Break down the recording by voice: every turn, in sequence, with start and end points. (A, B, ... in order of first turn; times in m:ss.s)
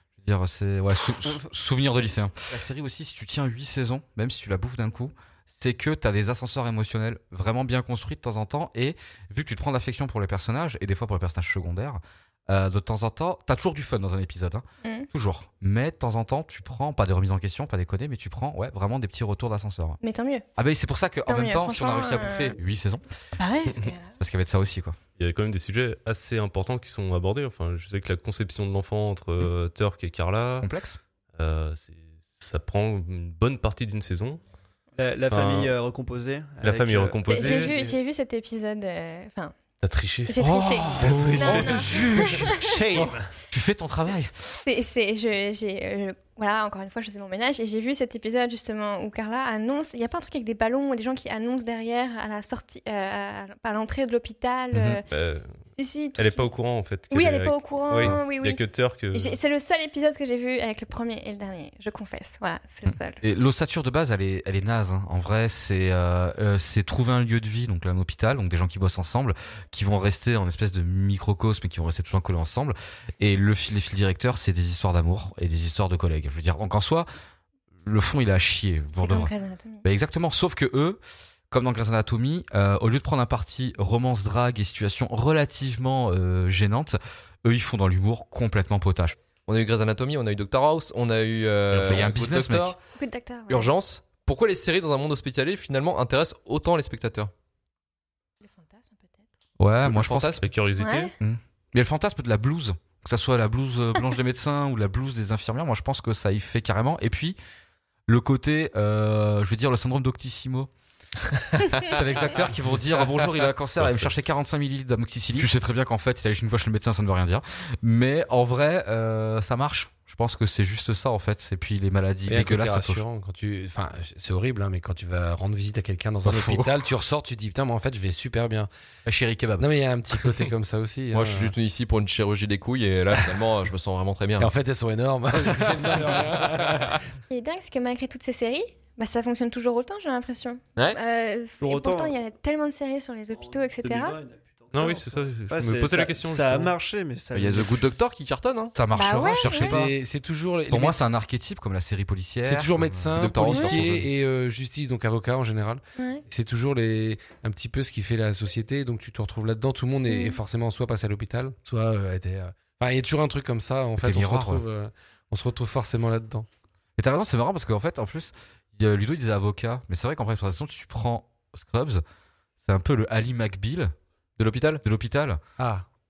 0:00.2-0:20.0 A
0:20.0-0:20.4 B
0:20.6-0:23.0 A
0:21.3-0:22.6 B
0:23.4-0:24.1 B
0:24.0-0:25.0 A
0:25.2-0:30.7 C
0:30.6-0:31.0 A
0:31.3-0:34.4 C
0:35.0-0:37.8 D
0:35.3-0:35.7 C
0:36.6-0:37.9 C
0:37.2-0:39.6 B
0:39.8-0:40.3 C
0:40.3-0:42.7 B
0:40.4-0:41.6 A
0:41.0-0:41.9 C
0:41.0-0:43.3 E
0:43.5-0:44.3 A
0:44.6-0:55.0 B
0:54.7-0:55.0 A
0:55.1-0:55.5 C
0:55.8-0:56.5 B
0:56.2-0:59.4 C
0:57.1-1:03.2 B
1:02.9-1:17.1 A
1:17.8-1:19.3 A
1:19.0-1:19.8 B
1:19.8-1:21.0 A
1:21.5-1:29.2 A
1:29.5-1:32.8 F
1:31.7-1:32.1 C
1:31.8-1:32.8 A
1:33.0-1:33.7 B
1:33.5-1:37.3 F
1:38.4-1:39.2 B
1:39.6-1:40.4 A
1:39.8-1:40.4 F
1:40.4-1:41.1 C
1:40.8-1:41.1 B
1:41.2-1:47.4 A
1:48.1-1:50.7 A
1:51.7-2:03.0 A
1:53.8-1:54.1 C
2:02.3-2:08.7 E
2:06.2-2:06.8 A
2:09.0-2:09.8 A
2:09.6-2:11.5 E
2:11.1-2:14.5 F
2:14.4-2:17.0 E
2:15.9-2:16.2 F
2:17.3-2:24.2 B
2:21.6-2:22.2 D
2:23.3-2:28.0 D
2:24.7-2:26.7 C
2:27.3-2:28.7 F
2:28.7-2:30.0 A
2:28.9-2:29.8 B
2:29.6-2:31.0 E
2:30.7-2:34.0 A
2:32.4-2:46.4 E
2:33.2-2:34.0 F
2:36.0-2:36.2 B
2:40.1-2:40.4 B
2:44.0-2:44.6 A
2:47.0-2:52.0 A
2:52.6-2:53.9 A
2:54.4-2:54.8 F
2:54.8-2:55.4 A
2:55.6-2:55.8 E